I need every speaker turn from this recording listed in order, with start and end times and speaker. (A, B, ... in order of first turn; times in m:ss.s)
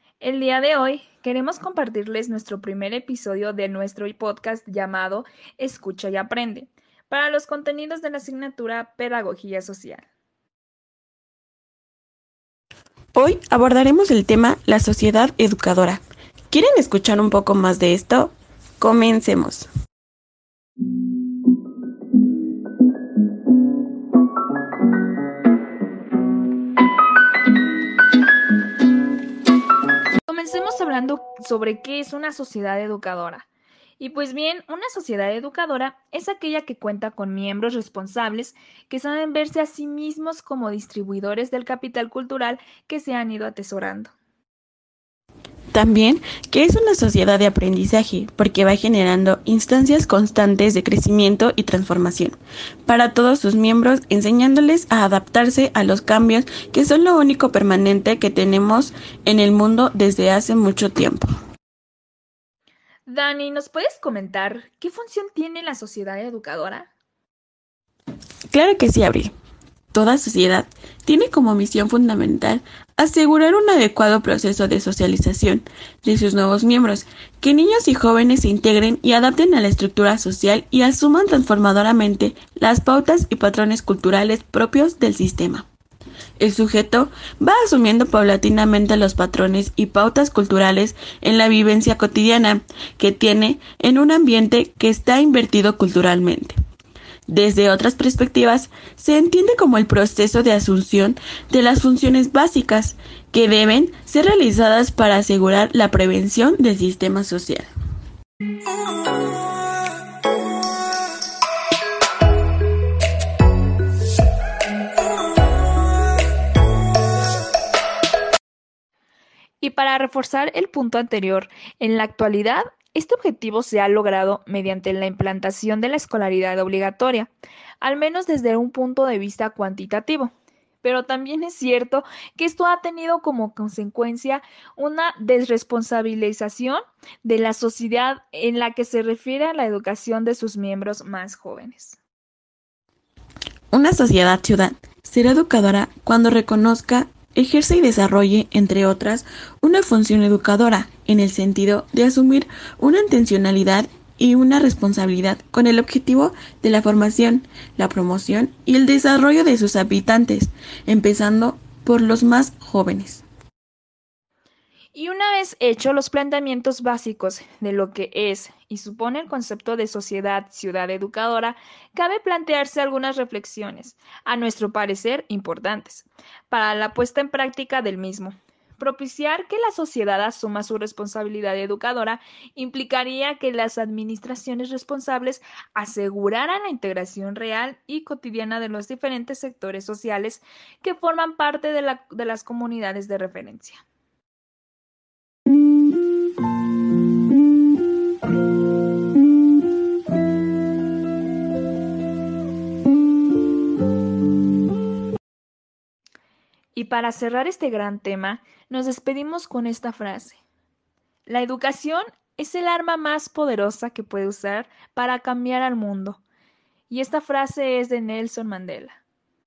0:00.2-0:10.1 A
0:13.2-0:19.7 B
0:30.3-0:33.5 A
0:34.0-0:44.1 A
0:45.7-1:01.3 B
1:03.1-1:06.9 A
1:08.5-1:09.3 B
1:09.9-1:25.7 B
1:26.4-1:36.6 B
1:37.3-1:47.7 B
1:59.6-2:07.3 A
2:07.8-2:22.0 A
2:23.7-2:43.2 B
2:44.9-3:13.8 A
3:26.8-3:30.4 A
3:31.3-3:36.2 A
3:36.9-3:39.0 A